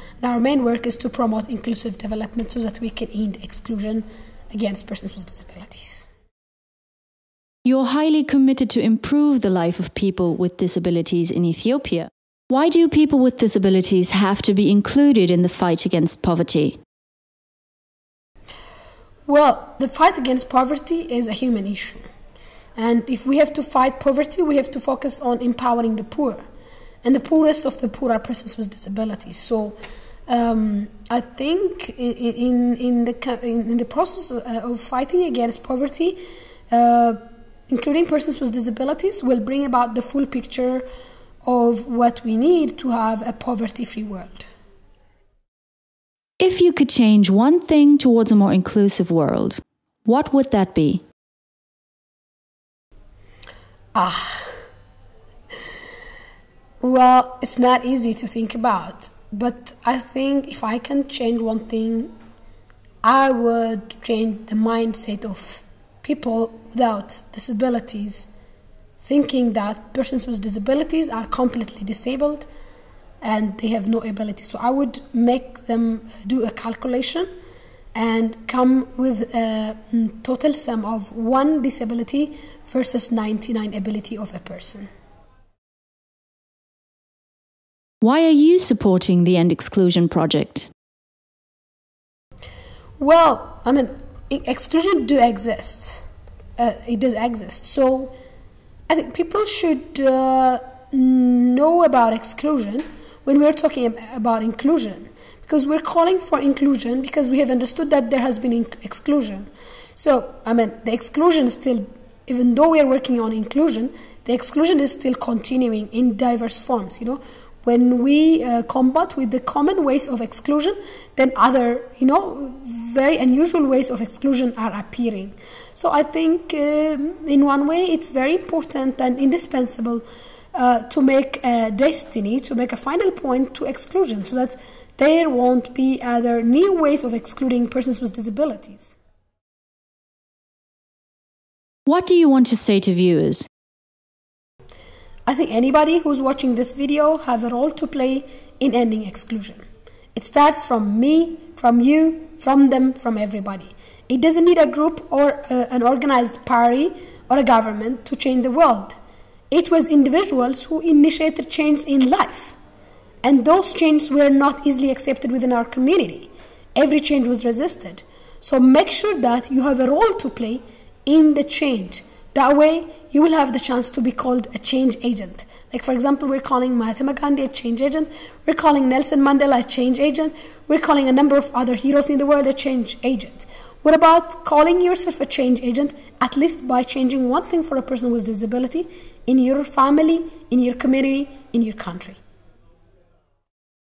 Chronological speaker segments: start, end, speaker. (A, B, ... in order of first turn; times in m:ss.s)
0:00.2-0:06.1 A
0:07.6-0:16.8 B
0:19.3-0:22.1 A
0:22.8-0:26.4 A
0:27.0-0:40.9 A
0:41.4-0:44.5 A
0:46.4-0:51.0 B
0:54.0-0:54.5 A
0:56.8-1:02.1 A
1:03.0-1:08.3 A
1:09.0-1:12.5 A
1:13.2-1:17.3 A
1:18.0-1:24.9 A
1:28.0-1:30.7 B
1:33.0-1:36.0 A
1:36.6-1:38.1 A
1:38.9-2:19.0 A
2:21.9-2:23.5 B
2:25.3-2:29.6 A
2:30.2-2:39.0 A
2:39.5-2:42.6 A
2:43.2-3:12.2 A